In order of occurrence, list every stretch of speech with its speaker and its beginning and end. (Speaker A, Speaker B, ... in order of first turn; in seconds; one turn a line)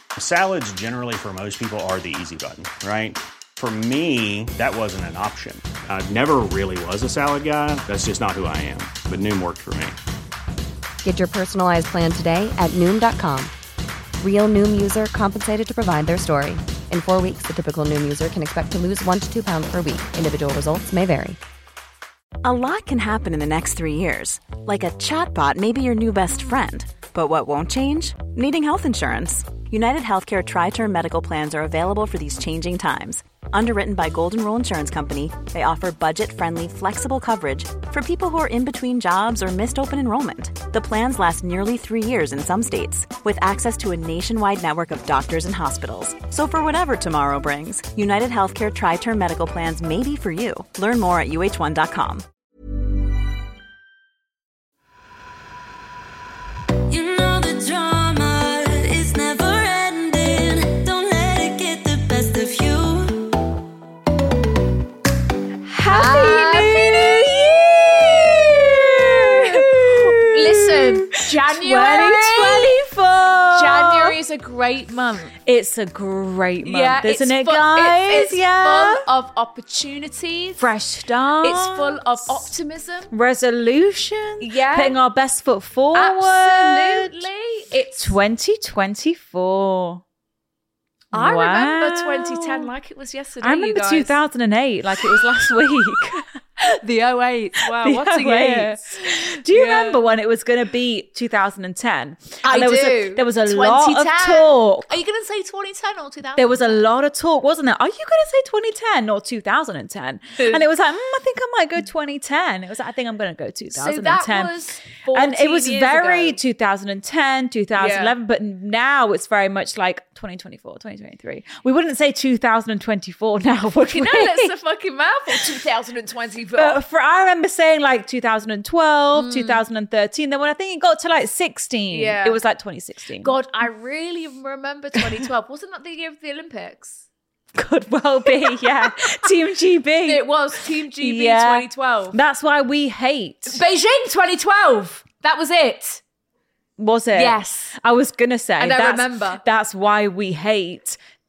Speaker A: 0.2-10.0
Speaker B: 11.0-13.5
Speaker B: 14.2-21.4
Speaker C: 22.4-52.3
Speaker D: 56.9-63.4
Speaker E: 65.7-74.2
Speaker F: 65.8-67.1
Speaker F: 69.2-72.8
Speaker F: 73.5-75.3
Speaker E: 75.4-79.1
Speaker F: 76.6-80.6
Speaker E: 80.6-82.5
Speaker F: 81.4-83.1
Speaker E: 83.1-87.3
Speaker F: 84.4-85.0
Speaker F: 85.9-88.2
Speaker E: 88.0-90.0
Speaker E: 91.1-92.7
Speaker F: 91.1-94.2
Speaker E: 93.4-96.2
Speaker F: 96.6-100.1
Speaker E: 97.6-104.9
Speaker F: 102.4-106.8
Speaker E: 106.4-124.5
Speaker F: 110.4-110.7
Speaker F: 113.8-116.4
Speaker F: 117.8-118.1
Speaker F: 123.9-126.8
Speaker E: 126.6-133.3
Speaker F: 129.1-129.6
Speaker F: 131.9-132.4
Speaker F: 133.2-137.1
Speaker E: 137.5-140.3
Speaker F: 138.4-139.3
Speaker F: 140.0-142.2
Speaker E: 140.8-143.6
Speaker F: 143.5-146.0
Speaker E: 146.8-151.0
Speaker F: 147.1-147.8
Speaker F: 148.6-149.4